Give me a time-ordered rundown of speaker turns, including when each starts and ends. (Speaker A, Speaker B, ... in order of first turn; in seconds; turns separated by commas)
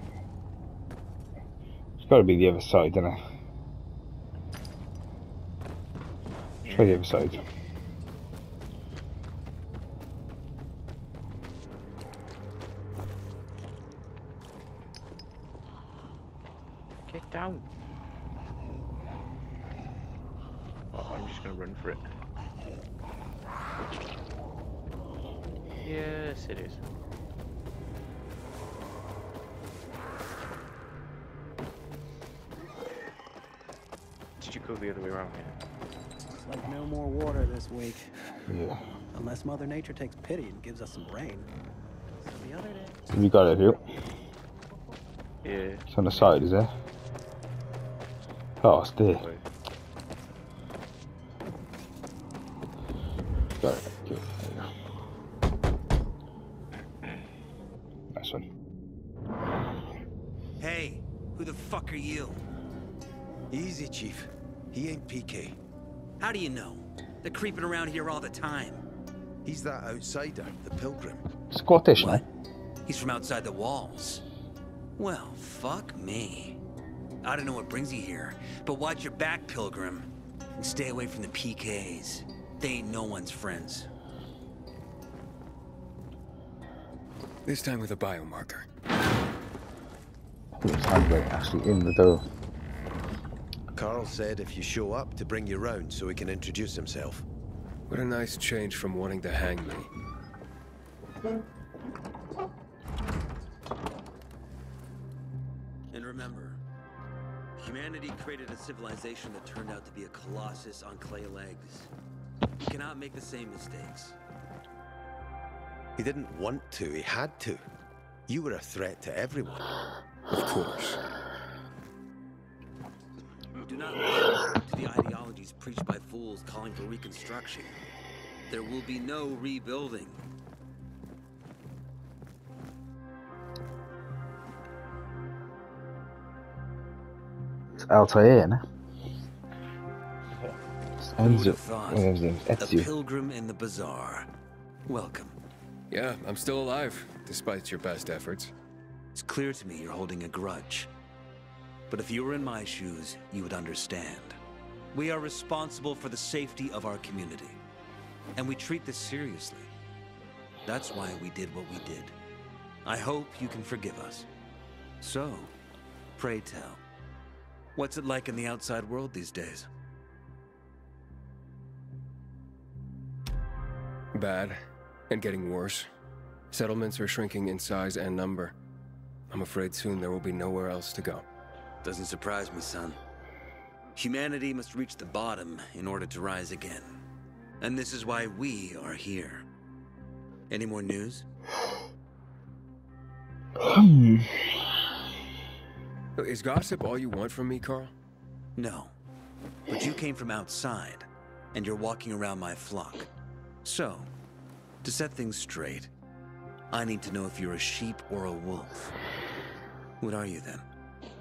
Speaker A: 2.0-3.2, Speaker B: 6.7-7.0, Speaker A: 6.7-7.4, Speaker B: 17.1-17.6, Speaker B: 20.9-22.1, Speaker B: 25.8-26.8, Speaker B: 34.4-35.6, Speaker C: 36.4-38.1, Speaker A: 38.5-38.8, Speaker C: 39.1-41.5, Speaker C: 42.2-43.0, Speaker A: 43.1-43.8, Speaker B: 45.4-46.4, Speaker A: 45.9-46.7, Speaker A: 48.6-49.2, Speaker B: 49.1-49.4, Speaker A: 53.6-54.7, Speaker A: 58.1-58.5, Speaker D: 60.6-62.4, Speaker E: 63.5-65.6, Speaker D: 66.2-68.8, Speaker E: 69.5-71.2, Speaker A: 71.5-72.2, Speaker D: 71.9-72.3, Speaker D: 72.9-74.2, Speaker D: 75.0-76.6, Speaker D: 77.2-83.9, Speaker F: 87.5-88.7, Speaker A: 90.6-92.2, Speaker E: 93.8-97.2, Speaker F: 97.9-99.9, Speaker D: 105.9-106.6, Speaker D: 107.6-111.9, Speaker D: 112.6-114.2, Speaker E: 116.0-117.6, Speaker E: 118.3-119.7, Speaker F: 120.3-121.0, Speaker D: 123.6-127.8, Speaker D: 128.5-130.2, Speaker A: 137.8-138.6, Speaker B: 140.3-140.6, Speaker A: 141.0-142.9, Speaker D: 141.2-144.3, Speaker D: 144.9-145.4, Speaker F: 145.9-148.5, Speaker D: 149.2-150.9, Speaker D: 151.9-154.4, Speaker D: 154.9-157.6, Speaker D: 158.4-159.7, Speaker D: 160.7-162.2, Speaker D: 162.8-164.3, Speaker D: 165.0-165.6, Speaker D: 166.2-166.8, Speaker D: 167.8-169.7, Speaker F: 174.1-174.6, Speaker F: 175.1-175.9, Speaker F: 176.5-178.5, Speaker F: 179.3-181.2, Speaker D: 181.8-183.0, Speaker D: 184.0-187.0, Speaker D: 187.6-189.4, Speaker D: 190.5-191.3, Speaker A: 193.6-194.7, Speaker F: 196.2-197.9, Speaker D: 198.6-198.9, Speaker D: 199.7-203.1, Speaker D: 203.6-204.1, Speaker D: 204.8-205.9, Speaker D: 206.7-208.9, Speaker D: 210.0-210.7